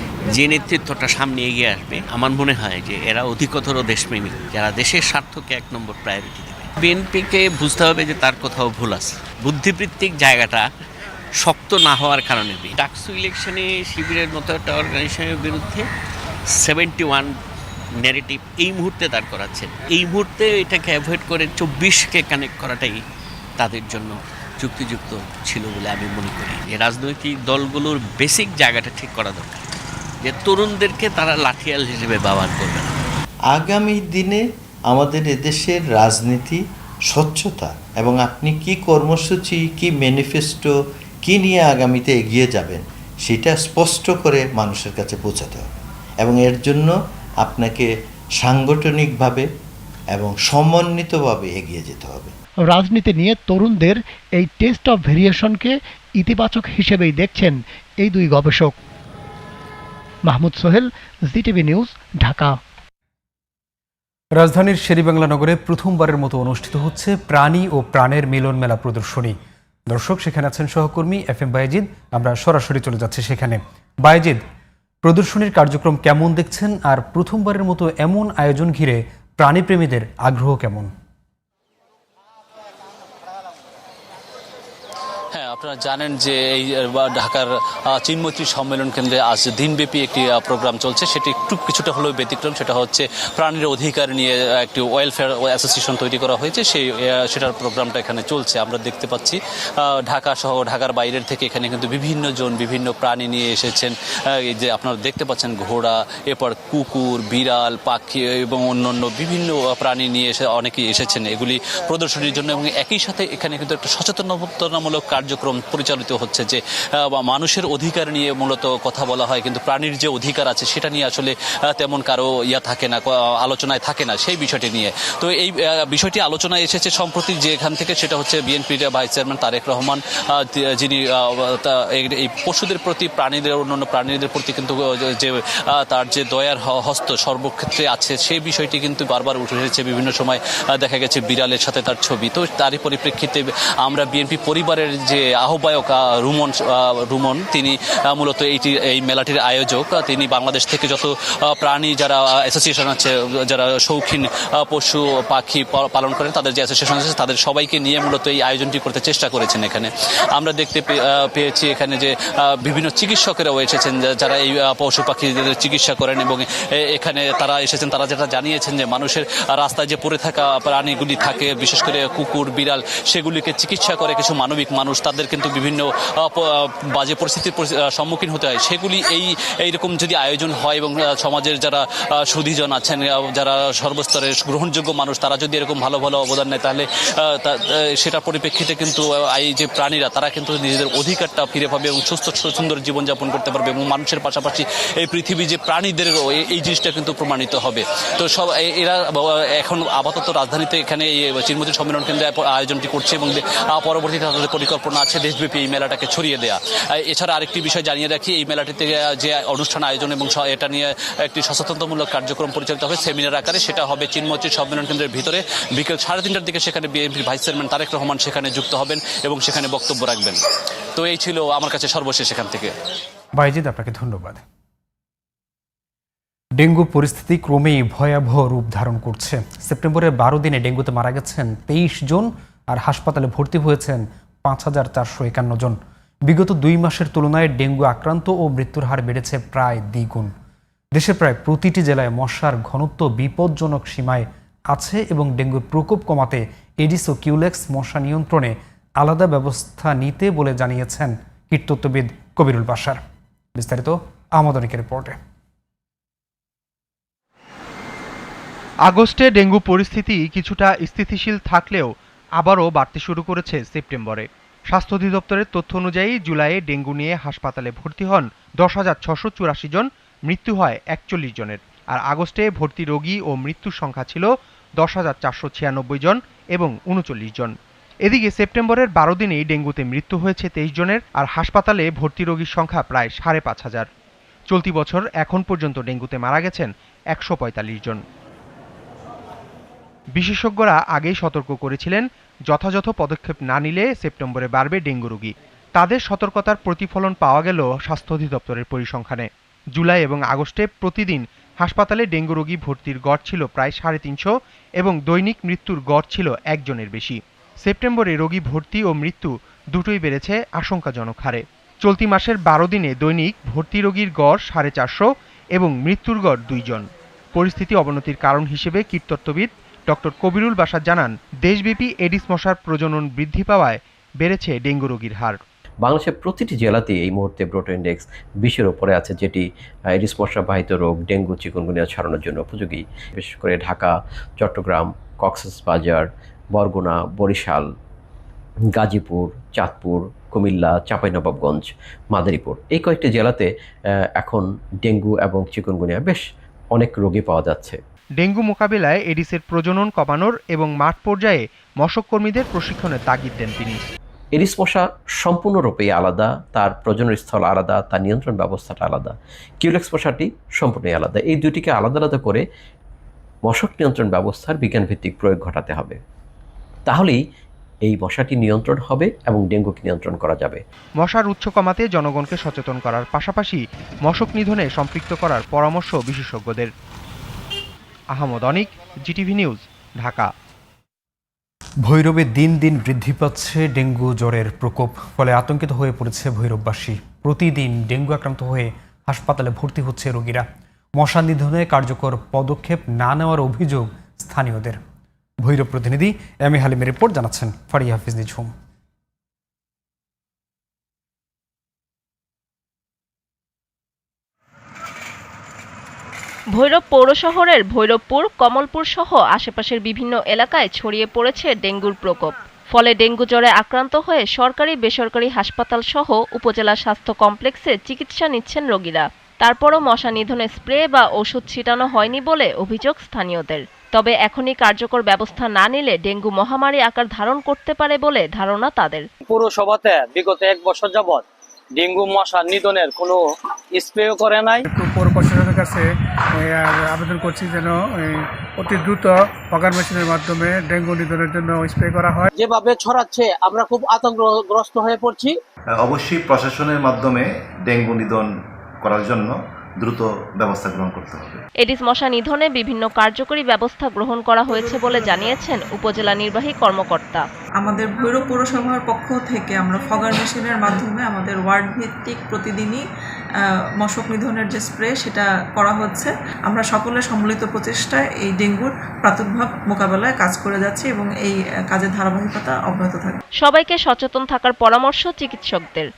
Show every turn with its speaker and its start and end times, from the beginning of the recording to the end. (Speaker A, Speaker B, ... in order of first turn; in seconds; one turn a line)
Speaker A: 0.3-10.7
Speaker A: 11.4-15.8
Speaker A: 16.5-17.3
Speaker A: 18.0-23.0
Speaker A: 23.6-29.7
Speaker A: 30.2-33.0
Speaker B: 33.6-34.4
Speaker B: 34.9-36.6
Speaker B: 37.1-40.7
Speaker B: 41.3-45.6
Speaker B: 46.2-46.9
Speaker B: 47.5-47.8
Speaker B: 48.4-49.4
Speaker B: 50.2-52.3
Speaker C: 52.7-58.7
Speaker C: 60.2-62.6
Speaker D: 64.3-69.3
Speaker D: 69.9-74.4
Speaker D: 75.0-80.9
Speaker E: 85.3-220.4
Speaker E: 220.9-222.7
Speaker D: 223.4-224.4
Speaker D: 226.6-240.3
Speaker D: 240.9-253.0
Speaker D: 253.6-255.2
Speaker F: 258.8-274.3
Speaker F: 274.8-277.5
Speaker F: 278.1-283.9
Speaker F: 284.5-288.0
Speaker F: 290.1-325.4
Speaker G: 325.8-337.7
Speaker G: 338.7-343.5
Speaker G: 344.1-346.2
Speaker G: 346.7-347.8
Speaker F: 348.2-353.9
Speaker G: 354.3-362.4
Speaker G: 363.4-366.0
Speaker G: 366.9-367.2
Speaker G: 367.8-370.6
Speaker F: 371.0-376.7
Speaker F: 378.1-380.3
Speaker D: 381.8-390.4
Speaker D: 391.0-394.8
Speaker D: 395.4-398.5
Speaker H: 406.5-429.1
Speaker I: 432.6-433.1
Speaker I: 433.8-434.6
Speaker J: 434.7-435.8
Speaker J: 436.4-442.3
Speaker I: 442.4-445.3
Speaker K: 445.8-448.2
Speaker K: 448.8-451.4
Speaker H: 451.6-457.3
Speaker L: 457.6-462.8
Speaker L: 463.8-473.2
Speaker H: 473.4-475.9